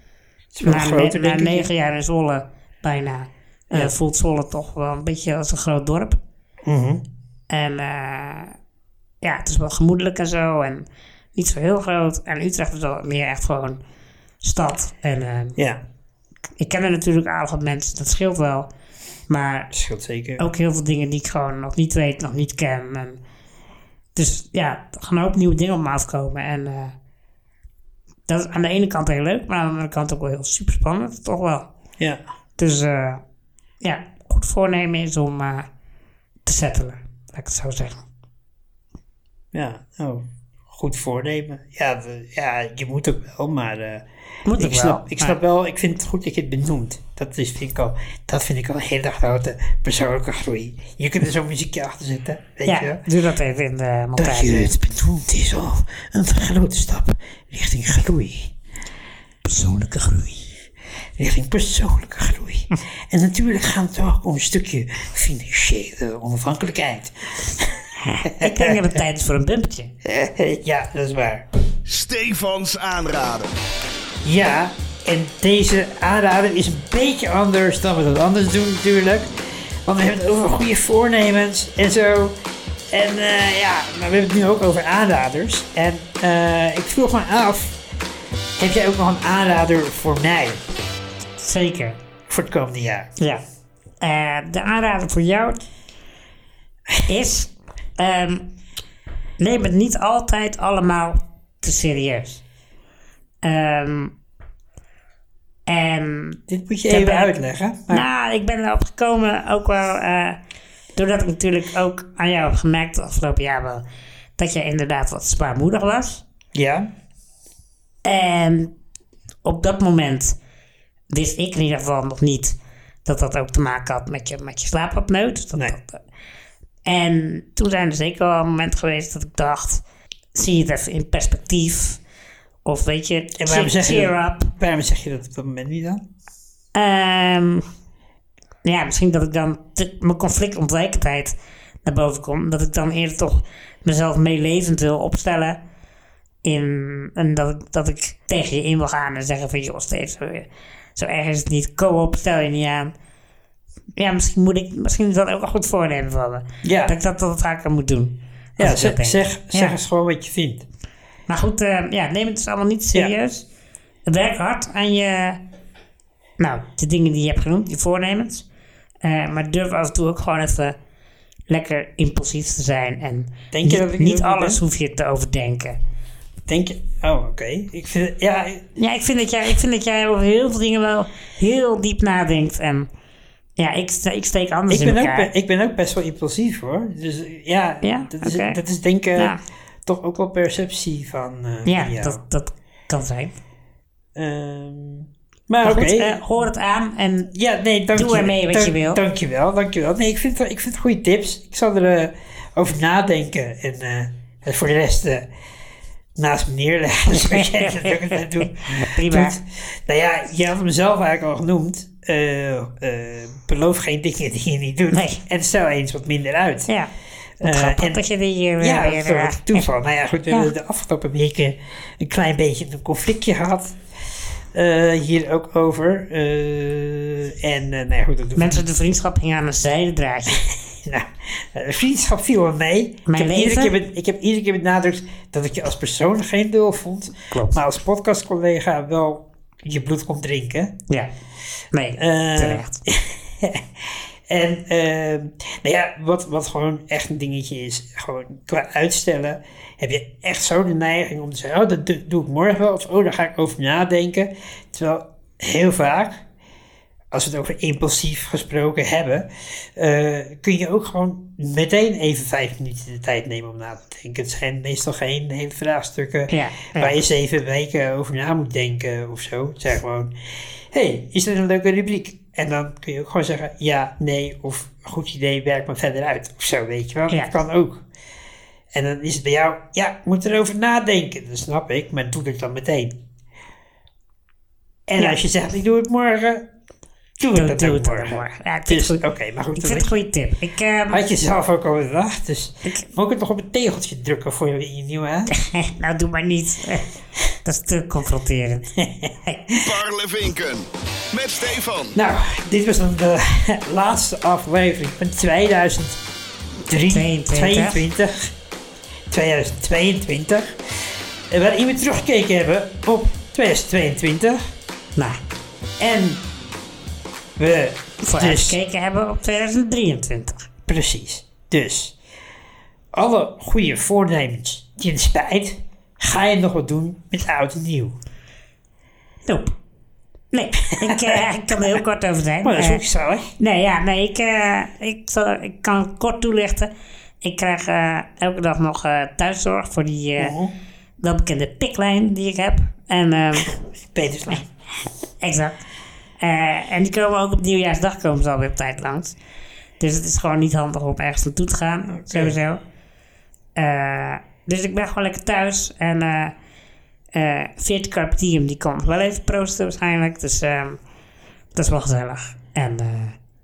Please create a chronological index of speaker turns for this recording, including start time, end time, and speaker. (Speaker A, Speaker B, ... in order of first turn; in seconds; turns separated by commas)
Speaker A: 0.5-1.7, Speaker B: 0.6-6.2, Speaker A: 6.7-7.0, Speaker B: 7.5-8.6, Speaker B: 9.2-13.8, Speaker B: 14.4-15.6, Speaker B: 16.6-18.7, Speaker B: 19.3-19.7, Speaker A: 19.7-20.4, Speaker B: 20.4-23.2, Speaker B: 24.1-26.9, Speaker B: 28.3-31.7, Speaker B: 32.6-33.2, Speaker B: 33.8-35.7, Speaker B: 36.5-38.0, Speaker A: 39.5-53.0, Speaker B: 44.5-45.4, Speaker B: 52.7-54.8, Speaker A: 54.2-58.5, Speaker B: 59.5-60.3, Speaker A: 61.2-68.8, Speaker B: 68.1-69.9, Speaker A: 70.0-71.5, Speaker C: 71.9-73.5, Speaker A: 74.2-82.4, Speaker A: 82.9-87.8, Speaker A: 88.6-90.7, Speaker B: 91.4-92.0, Speaker A: 92.3-93.1, Speaker B: 94.0-95.6, Speaker B: 97.1-98.5, Speaker B: 99.4-102.4, Speaker B: 103.4-104.1, Speaker B: 105.7-107.4, Speaker A: 106.5-108.1, Speaker B: 107.9-110.4, Speaker B: 111.0-113.8, Speaker B: 114.4-116.2, Speaker A: 116.5-116.9, Speaker B: 118.0-118.7, Speaker B: 119.4-120.4, Speaker B: 121.1-126.0, Speaker B: 126.9-129.8, Speaker B: 130.3-132.0, Speaker B: 132.7-134.5, Speaker A: 133.4-136.0, Speaker B: 136.8-137.7, Speaker B: 138.6-145.6, Speaker B: 146.4-152.9, Speaker B: 154.0-159.7, Speaker A: 156.6-156.9, Speaker A: 158.6-160.7, Speaker B: 161.3-163.5, Speaker B: 164.1-165.4, Speaker B: 166.4-168.5, Speaker B: 169.0-170.8, Speaker B: 171.5-175.8, Speaker A: 173.5-174.6, Speaker A: 176.5-178.7, Speaker B: 178.8-182.9, Speaker B: 183.6-185.3, Speaker A: 184.7-192.2, Speaker B: 187.8-188.6, Speaker B: 189.2-189.4, Speaker B: 191.7-193.3, Speaker A: 194.2-196.2, Speaker B: 195.6-197.3, Speaker A: 197.3-205.3, Speaker B: 197.9-199.0, Speaker A: 206.2-216.7, Speaker B: 207.1-209.4, Speaker B: 214.9-215.2, Speaker A: 217.4-218.0, Speaker B: 217.4-219.7, Speaker A: 218.6-223.8, Speaker A: 224.5-228.6, Speaker B: 228.4-230.4, Speaker A: 230.3-240.8, Speaker B: 233.1-233.8, Speaker B: 241.7-242.8, Speaker A: 242.0-256.2, Speaker A: 257.1-270.1, Speaker B: 266.3-267.0, Speaker A: 270.7-277.9, Speaker A: 278.7-283.0, Speaker A: 284.9-286.5, Speaker A: 287.2-289.9, Speaker B: 287.3-289.0, Speaker B: 289.6-291.0, Speaker A: 290.9-295.3, Speaker B: 295.3-296.9, Speaker B: 297.4-298.7, Speaker A: 298.8-299.6, Speaker C: 299.6-302.0, Speaker A: 302.0-306.0, Speaker A: 306.7-308.3, Speaker B: 306.9-307.9, Speaker A: 309.1-310.6, Speaker A: 311.3-314.4, Speaker A: 315.8-316.2, Speaker A: 317.4-318.6, Speaker B: 318.0-320.5, Speaker A: 320.7-322.0, Speaker A: 322.9-328.0, Speaker B: 329.3-329.5, Speaker B: 330.3-332.8, Speaker A: 330.7-331.2, Speaker A: 332.4-333.3, Speaker B: 333.4-336.7, Speaker B: 337.2-340.4, Speaker A: 340.2-340.5, Speaker B: 341.0-343.6, Speaker A: 343.4-344.5, Speaker B: 345.2-345.6, Speaker B: 346.2-349.2, Speaker B: 349.8-352.6, Speaker A: 351.9-352.4, Speaker B: 353.6-356.4, Speaker B: 357.1-360.8, Speaker B: 361.6-363.2